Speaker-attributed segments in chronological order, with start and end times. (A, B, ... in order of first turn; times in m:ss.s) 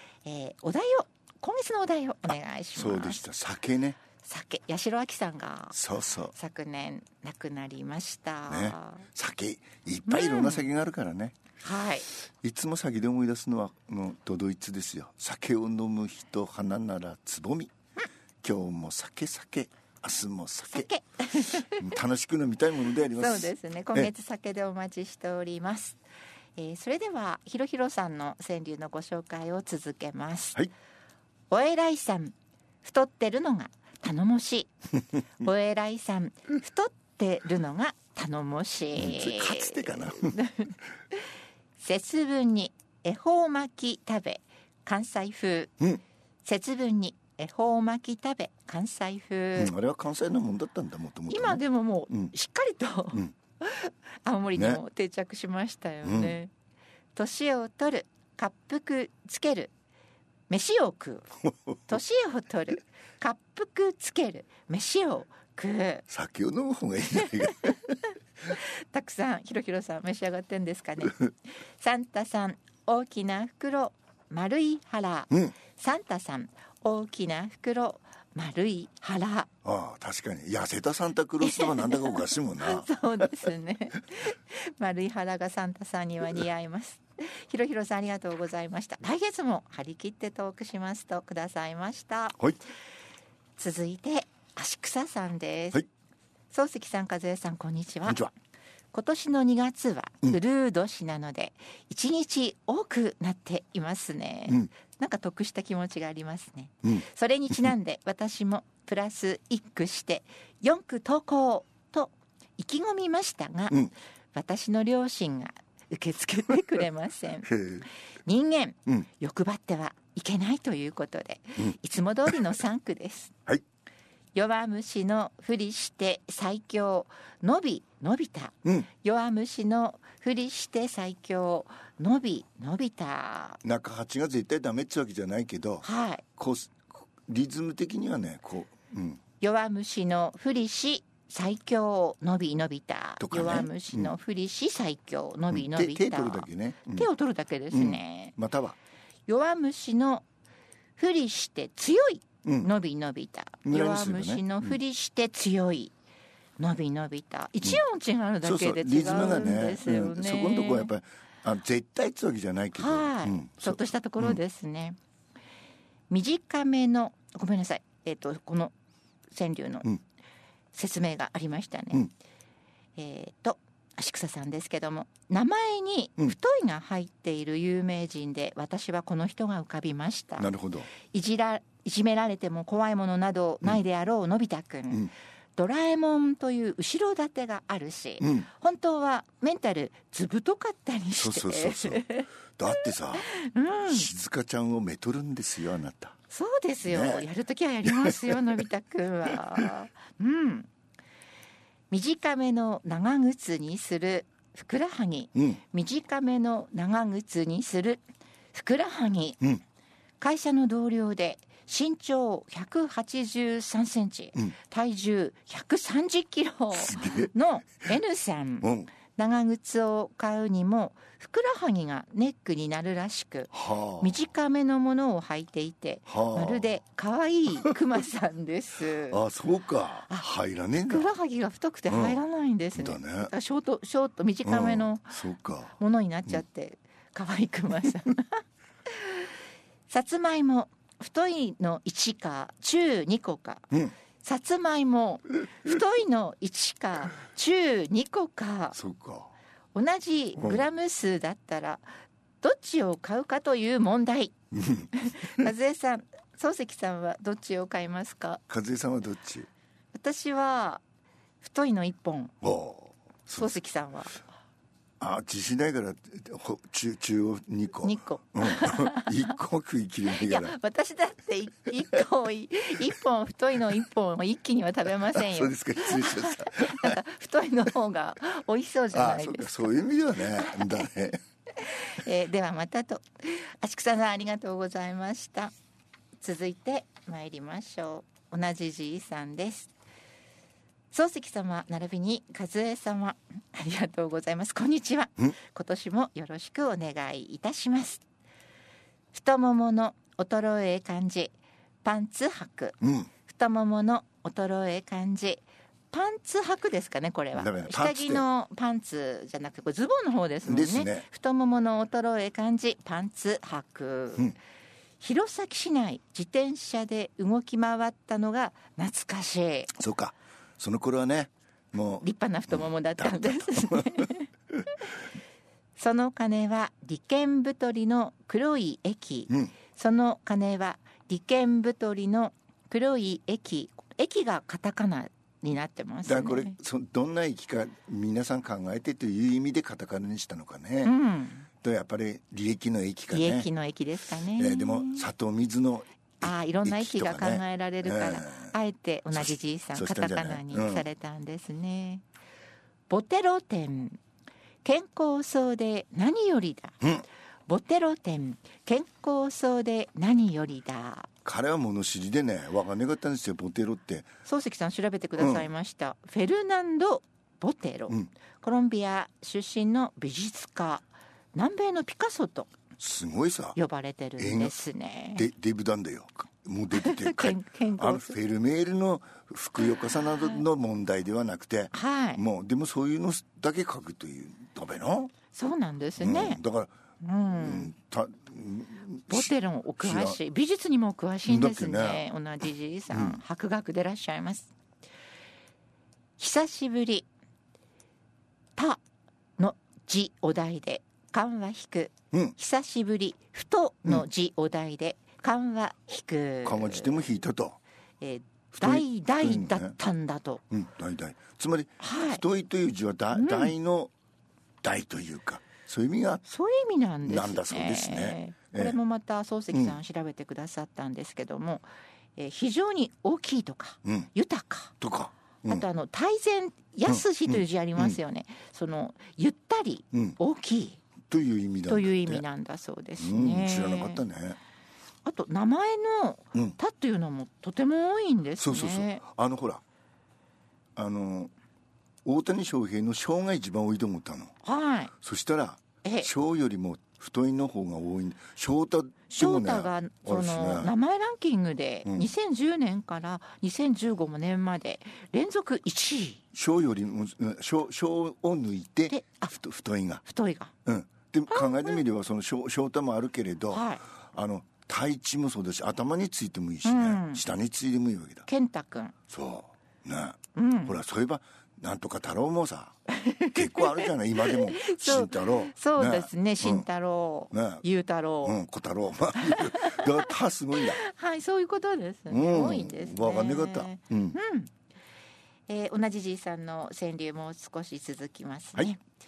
0:00.2-0:03.2 A
0:02.8-0:04.0 B
0:04.2-0:05.8 A
0:05.7-0:06.3 B
0:06.3-0:09.0 A
0:08.5-0:11.4 B
0:10.1-0:10.6 A
0:11.6-0:12.1 A
0:12.1-0:17.7 B
0:18.4-0:24.1 B
0:20.7-0:21.9 A
0:23.1-0:26.0 A
0:26.6-0:30.6 A
0:31.5-0:34.7 A
0:35.4-0:41.2 A
0:39.0-0:40.4 B
0:41.8-0:45.7 A
0:46.4-0:49.7 A
0:49.6-0:52.3 B
0:51.3-0:56.5 A
0:54.5-0:54.8 B
0:56.0-0:56.4 B
0:57.1-0:59.7 A
1:00.5-1:01.3 A
1:01.9-1:06.0 A
1:06.1-1:08.0 B
1:08.4-1:19.5 A
1:19.6-1:23.5 B
1:21.4-1:32.4 A
1:33.6-1:35.9 A
1:36.5-1:38.3 A
1:38.9-1:57.6 A
1:57.4-1:57.9 B
1:58.2-2:03.3 A
2:04.3-2:13.6 A
2:13.6-2:19.2 B
2:15.8-2:16.2 A
2:19.4-2:28.3 A
2:23.2-2:24.1 B
2:25.5-2:27.1 B
2:27.7-2:28.8 B
2:29.3-2:30.2 A
2:31.0-2:35.9 A
2:32.4-2:32.7 B
2:33.6-2:34.8 B
2:36.6-2:40.9 A
2:38.4-2:44.4 B
2:42.7-2:45.0 A
2:46.1-2:48.7 A
2:49.3-2:49.9 A
2:50.7-2:52.1 A
2:53.0-3:14.1 A
3:00.4-3:00.9 B
3:08.2-3:08.5 B
3:11.1-3:12.0 B
3:12.6-3:13.3 B
3:13.8-3:16.2 B
3:16.3-3:20.7 A
3:16.8-3:17.3 B
3:17.8-3:18.6 B
3:21.9-3:28.0 A
3:28.5-3:29.4 A
3:30.2-3:49.2 A
3:36.8-3:37.3 B
3:38.6-3:38.9 B
3:43.5-3:44.2 B
3:46.1-3:46.7 B
3:48.9-3:51.1 B
3:50.9-3:55.1 A
3:51.9-3:52.2 B
3:52.8-3:53.3 B
3:54.4-3:55.8 B
3:55.8-3:59.3 A
3:59.9-4:08.8 A
4:08.7-4:09.3 B
4:09.7-4:11.8 A
4:10.4-4:10.6 B
4:12.4-4:14.3 A
4:14.6-4:15.5 B
4:14.9-4:18.4 A
4:18.5-4:19.5 B
4:19.9-4:20.8 A
4:21.4-4:22.3 A
4:22.4-4:23.5 B
4:23.3-4:24.2 A
4:25.0-4:30.6 B
4:27.8-4:29.2 A
4:30.1-4:40.9 A
4:35.0-4:37.0 B
4:38.9-4:41.2 B
4:41.6-4:45.5 A
4:46.2-4:49.7 A
4:50.9-4:58.0 A
4:59.1-5:01.3 A
5:01.8-5:14.4 A
5:02.8-5:03.1 B
5:07.3-5:08.2 B
5:10.4-5:11.0 B
5:15.0-5:19.7 A
5:19.7-5:24.1 B
5:22.0-5:24.3 A
5:25.8-5:36.6 A
5:29.3-5:29.5 B
5:36.0-5:41.0 B
5:40.8-5:41.5 A
5:41.6-5:43.5 B
5:43.1-5:45.1 A
5:44.3-5:48.5 B
5:46.2-5:52.0 A
5:49.2-5:50.9 B
5:52.9-5:54.0 A
5:54.6-5:56.8 A
5:57.5-6:01.1 A
6:01.2-6:04.1 B
6:04.2-6:12.5 A
6:05.2-6:05.5 B
6:12.8-6:13.6 B
6:13.5-6:15.3 A
6:14.2-6:14.6 B
6:15.1-6:25.1 B
6:16.7-6:18.1 A
6:21.7-6:22.2 A
6:25.3-6:26.4 A
6:26.0-6:26.7 B
6:27.0-6:27.7 A
6:27.4-6:30.2 B
6:29.1-6:34.5 A
6:31.3-6:32.0 B
6:32.9-6:33.2 B
6:36.2-6:37.1 A
6:39.4-6:47.0 A
6:46.4-6:47.6 B
6:48.0-6:50.4 A
6:48.5-6:49.8 B
6:50.5-6:53.9 B
6:51.8-6:52.2 A
6:53.1-6:53.5 A
6:54.6-6:56.2 B
6:56.3-7:01.6 A
6:57.0-6:58.8 B
6:59.5-6:59.8 B
7:02.2-7:04.7 A
7:04.8-7:05.6 B
7:05.4-7:10.8 A
7:06.8-7:08.0 B
7:09.9-7:10.2 B
7:11.1-7:12.2 B
7:11.7-7:14.0 A
7:13.0-7:14.4 B
7:15.0-7:19.0 A
7:18.4-7:19.6 B
7:20.8-7:21.3 B
7:22.0-7:24.3 B
7:24.4-7:24.9 A
7:25.0-7:30.7 B
7:25.8-7:26.1 A
7:29.1-7:36.2 A
7:36.3-7:40.0 B
7:38.9-7:39.3 A
7:40.0-7:40.5 A
7:40.6-7:48.3 B
7:41.3-7:41.8 A
7:43.5-7:43.8 A
7:46.6-7:47.2 A
7:48.3-7:48.9 A
7:49.1-7:52.8 B
7:50.3-7:50.8 A
7:52.9-7:58.4 A
7:53.3-7:56.7 B
7:57.3-7:57.6 B
7:58.2-8:00.8 B
7:59.2-8:04.5 A
8:02.1-8:04.2 B
8:05.5-8:08.8 A